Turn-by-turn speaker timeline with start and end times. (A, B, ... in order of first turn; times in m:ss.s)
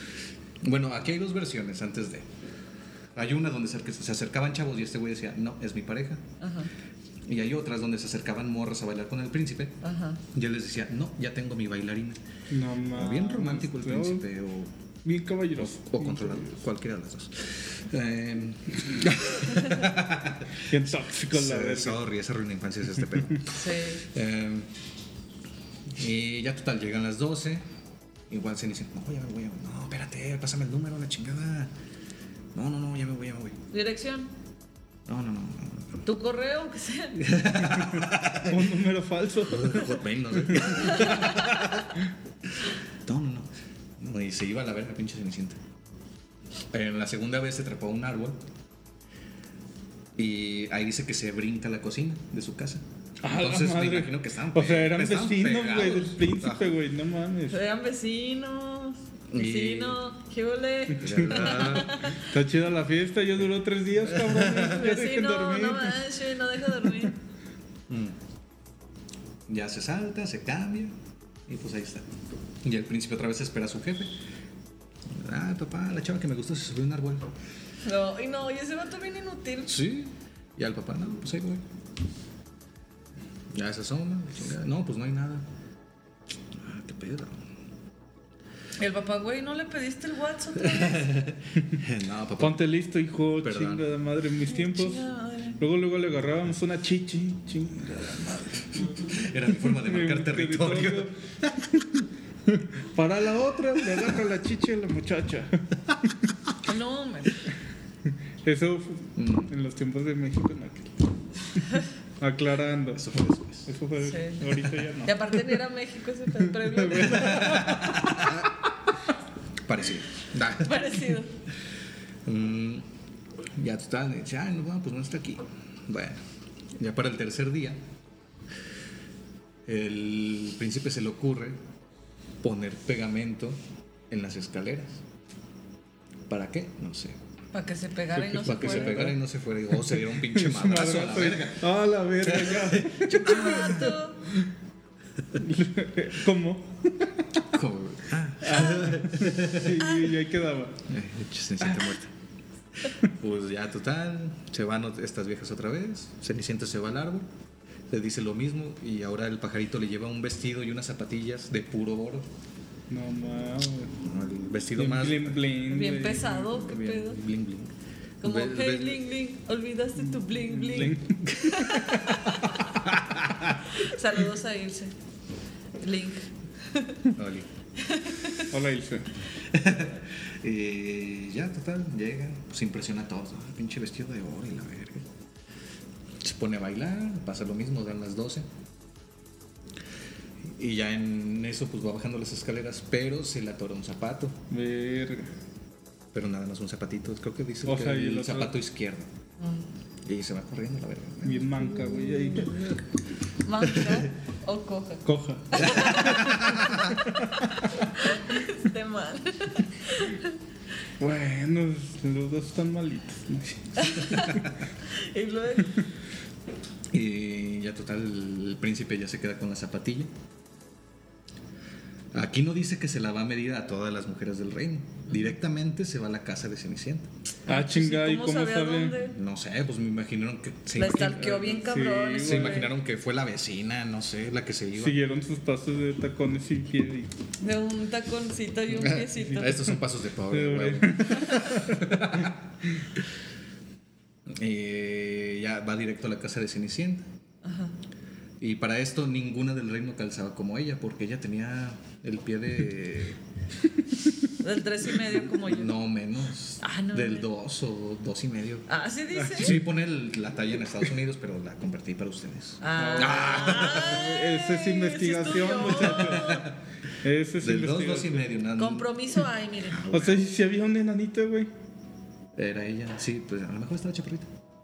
0:00.6-0:02.3 A
0:03.2-0:06.2 A
0:06.4-0:06.7 B
0:07.3-0:12.2 A
0:09.8-0:10.2 B
0:12.5-0:14.3 C
0:12.9-0:14.7 A
0:15.0-0:16.5 C
0:15.6-0:20.6 A
0:20.7-0:22.0 C
0:21.3-0:24.7 A
0:23.5-0:24.0 B
0:26.0-0:27.6 A
0:28.3-0:31.7 A
0:32.6-0:33.6 A
0:33.7-0:34.3 B
0:35.1-0:36.0 A
0:36.0-0:37.3 B
0:37.2-0:38.7 A
0:38.4-0:41.4 C
0:39.5-0:41.9 A
0:40.6-0:41.5 B
0:43.0-0:45.6 A
0:46.7-0:48.4 A
0:50.2-0:56.8 A
0:53.2-0:57.6 C
0:57.5-1:02.2 B
0:59.3-1:00.0 A
1:01.0-1:02.0 A
1:01.1-1:06.0 C
1:04.1-1:04.8 A
1:04.6-1:07.2 B
1:07.9-1:08.2 A
1:09.5-1:10.9 A
1:11.5-1:12.1 A
1:12.6-1:14.1 A
1:15.1-1:17.3 A
1:17.8-1:19.7 B
1:19.7-1:21.6 A
1:23.5-1:25.4 A
1:26.6-1:27.4 A
1:28.8-1:31.1 B
1:30.7-1:32.6 A
1:32.4-1:35.0 C
1:33.4-1:33.9 A
1:34.5-1:35.6 B
1:35.6-1:39.1 C
1:39.0-1:41.6 A
1:39.7-1:41.1 C
1:42.5-1:45.6 C
1:46.6-1:47.4 B
1:48.4-1:51.0 C
1:49.2-1:49.5 A
1:52.2-1:53.0 C
1:52.9-1:53.7 A
1:53.7-1:55.4 C
1:54.0-1:54.5 B
1:55.0-1:57.6 B
1:56.5-1:58.4 C
1:57.1-1:58.5 A
1:59.7-2:01.0 A
2:00.6-2:01.3 B
2:02.2-2:02.9 A
2:03.6-2:06.2 A
2:06.8-2:07.8 A
2:09.7-2:11.6 A
2:12.4-2:13.6 A
2:14.1-2:15.0 A
2:16.3-2:17.2 A
2:17.5-2:19.1 B
2:18.2-2:19.2 C
2:18.4-2:21.7 A
2:19.7-2:24.0 C
2:22.2-2:23.9 A
2:23.0-2:24.2 B
2:25.4-2:27.4 C
2:27.4-2:29.8 A
2:28.4-2:30.9 C
2:30.9-2:32.1 A
2:31.6-2:31.9 C
2:32.9-2:37.3 A
2:37.9-2:42.3 A
2:42.9-2:44.0 C
2:44.0-2:45.4 A
2:44.8-2:46.6 C
2:45.7-2:47.2 B
2:46.4-2:49.0 A
2:48.2-2:52.8 B
2:50.5-2:51.9 C
2:51.3-2:52.2 A
2:52.8-2:53.6 A
2:53.7-2:54.9 B
2:55.8-2:57.1 B
2:57.1-2:57.5 A
2:57.8-2:58.5 B
2:58.5-2:59.1 C
2:59.4-3:05.0 A
3:06.2-3:08.5 A
3:10.4-3:14.4 A
3:14.5-3:15.3 C
3:16.1-3:19.1 A
3:17.6-3:18.6 C
3:19.4-3:19.6 B
3:20.0-3:22.8 A
3:21.2-3:22.8 C
3:23.4-3:26.2 B
3:23.8-3:24.0 A
3:25.0-3:26.0 C
3:25.6-3:27.0 A
3:27.7-3:30.4 B
3:31.0-3:34.1 C
3:33.8-3:35.9 B
3:36.9-3:40.1 A
3:42.1-3:47.1 A
3:47.5-3:49.0 C
3:47.5-3:49.2 B
3:49.1-3:51.2 A
3:50.8-3:52.7 B
3:50.8-3:52.7 C
3:52.2-3:55.0 A
3:54.8-3:57.2 C
3:57.4-3:59.7 B
3:58.8-4:02.4 A
4:00.3-4:02.0 C
4:04.3-4:07.1 A
4:07.4-4:07.8 B
4:08.4-4:13.2 A
4:14.4-4:15.7 B
4:15.0-4:18.7 A
4:16.6-4:17.3 B
4:18.7-4:19.6 B
4:19.2-4:19.6 C
4:19.4-4:24.0 A
4:22.6-4:26.5 B
4:22.8-4:26.5 C
4:25.7-4:26.5 A
4:27.0-4:28.3 C
4:27.4-4:30.3 A
4:28.6-4:29.8 B
4:29.9-4:31.5 C
4:32.4-4:34.3 A